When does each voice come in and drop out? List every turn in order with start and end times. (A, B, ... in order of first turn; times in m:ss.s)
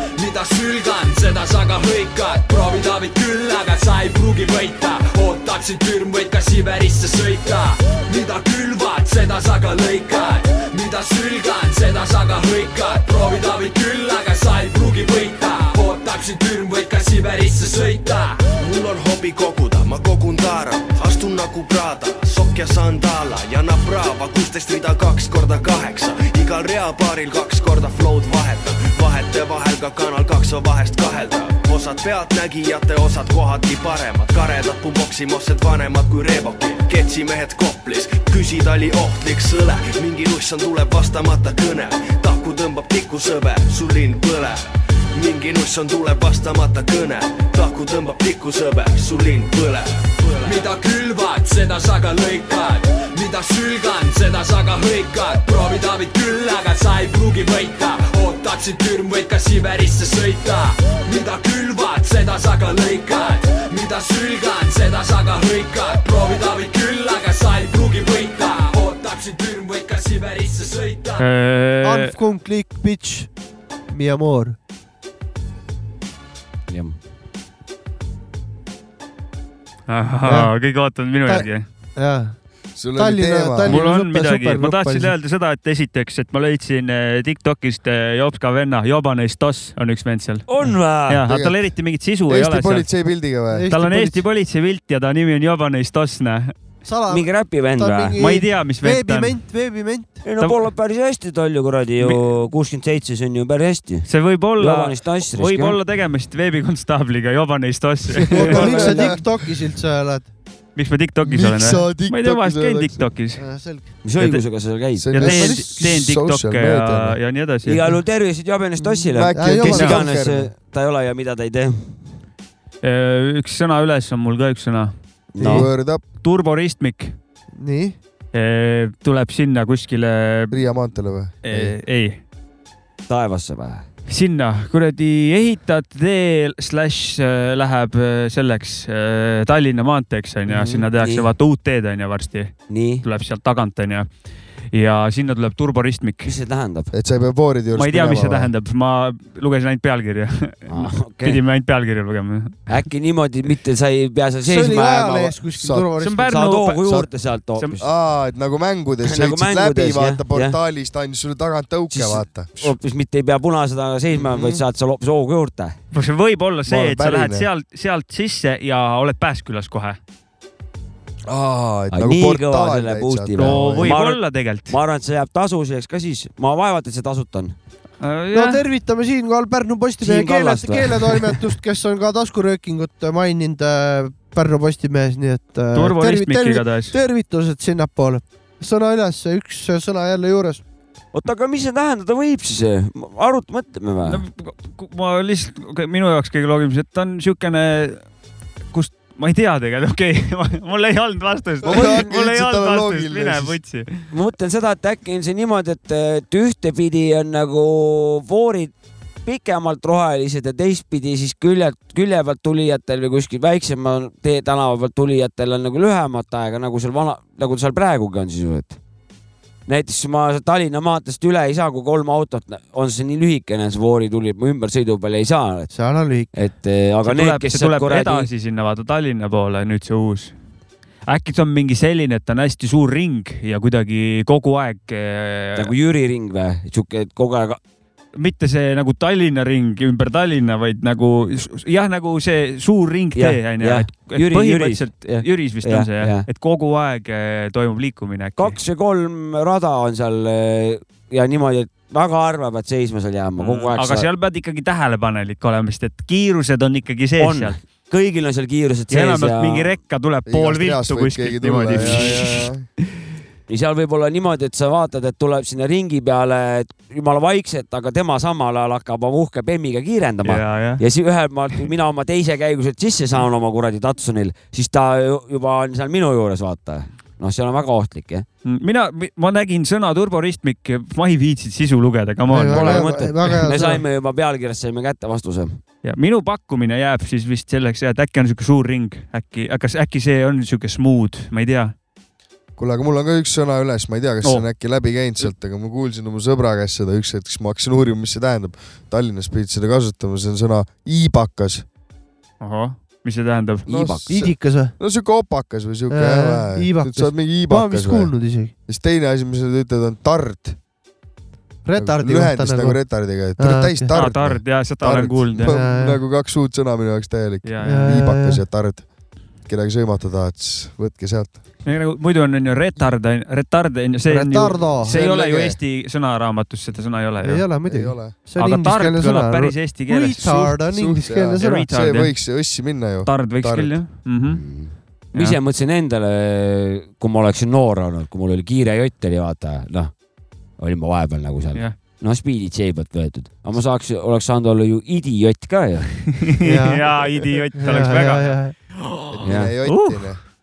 0:02.5-0:02.9 A
0:03.8-0:09.2 A
0:09.8-0:10.6 A
0:11.3-0:11.8 A
0:12.4-0:18.1 A
0:18.5-0:50.6 B
0:57.4-0:57.8 A
0:59.8-1:00.2 A
1:01.2-1:02.1 A
1:02.6-1:11.2 A
1:11.2-1:12.1 C
1:11.8-1:13.3 D
1:13.9-1:14.6 D
1:16.7-1:17.0 E
1:19.9-1:21.6 C
1:21.2-1:22.3 D
1:22.8-1:23.8 F
1:23.0-1:25.1 D
1:23.6-1:30.5 C
1:30.5-1:31.2 E
1:31.1-1:32.9 C
1:31.2-1:31.6 F
1:32.3-1:34.0 F
1:33.6-1:34.1 D
1:33.7-1:36.5 C
1:36.8-1:40.2 D
1:37.1-1:38.2 E
1:38.2-1:39.3 C
1:40.2-1:45.8 E
1:42.0-1:42.2 C
1:44.1-1:49.0 C
1:48.1-1:49.2 F
1:48.3-1:50.3 D
1:50.8-1:53.4 C
1:51.2-1:53.0 F
1:53.4-1:53.9 D
1:54.0-1:55.1 E
1:54.2-1:54.4 C
1:55.0-1:57.2 F
1:55.1-1:57.8 C
1:55.2-1:55.6 D
1:57.6-2:02.0 E
1:58.9-2:00.5 F
1:59.3-2:00.0 D
2:02.8-2:04.9 C
2:05.3-2:05.6 D
2:05.4-2:05.7 E
2:05.4-2:06.0 F
2:06.2-2:07.1 C
2:07.6-2:08.0 D
2:08.3-2:10.6 C
2:10.5-2:11.7 F
2:11.4-2:12.2 C
2:13.1-2:13.8 E
2:14.1-2:24.1 C
2:20.5-2:20.8 F
2:20.7-2:21.3 E
2:22.7-2:23.0 E
2:24.7-2:26.3 C
2:26.2-2:26.9 E
2:26.9-2:28.5 F
2:27.7-2:32.5 C
2:30.7-2:31.4 E
2:32.7-2:35.4 E
2:34.4-2:36.2 D
2:35.6-2:35.9 F
2:36.0-2:36.8 C
2:36.2-2:37.8 E
2:37.8-2:42.7 F
2:39.0-2:40.5 E
2:41.9-2:45.8 E
2:44.1-2:44.6 F
2:45.9-2:50.0 C
2:46.6-2:47.5 F
2:51.3-2:53.9 F
2:51.9-2:57.6 E
2:53.3-2:54.8 C
2:58.0-2:58.6 C
2:58.3-3:10.6 D
3:00.0-3:01.4 E
3:05.7-3:06.9 C
3:11.1-3:14.2 E
3:14.0-3:18.0 C
3:18.7-3:24.0 C
3:21.6-3:23.6 F
3:24.1-3:28.7 E
3:29.2-3:38.8 E
3:39.7-3:45.7 E
3:45.7-3:46.3 D
3:46.3-3:48.3 E
3:47.0-3:50.3 C
3:51.1-3:55.7 C
3:55.5-3:57.6 E
3:58.1-4:08.6 C
4:03.2-4:06.2 E
4:08.4-4:14.1 E
4:13.4-4:17.6 C
4:17.2-4:19.7 E
4:18.9-4:22.5 C
4:20.3-4:22.6 F
4:21.7-4:22.2 E
4:23.5-4:38.2 E
4:30.2-4:30.8 C
4:38.4-4:42.9 C
4:42.3-4:43.8 D
4:42.4-4:45.6 E
4:45.8-4:51.7 C
4:52.6-5:01.6 F
5:02.4-5:03.7 C
5:03.7-5:04.1 E
5:03.7-5:08.1 F
5:04.1-5:04.7 D
5:05.9-5:08.5 D
5:08.7-5:10.6 F
5:11.6-5:12.8 D
5:11.8-5:18.8 F
5:13.4-5:14.0 D
5:13.9-5:15.5 C
5:15.4-5:16.0 D
5:17.4-5:17.9 C
5:17.6-5:18.4 D
5:19.5-5:21.4 F
5:21.6-5:27.4 C
5:24.1-5:25.0 D
5:24.9-5:25.6 F
5:27.2-5:31.7 D
5:27.6-5:28.1 F
5:28.4-5:30.6 C
5:30.7-5:33.8 F
5:31.4-5:32.1 C
5:33.0-5:34.4 C
5:34.3-5:39.9 E
5:40.6-5:46.2 E
5:46.2-5:50.1 C
5:46.4-5:46.9 D
5:47.6-5:48.5 D
5:49.1-5:50.2 F
5:49.2-5:49.5 E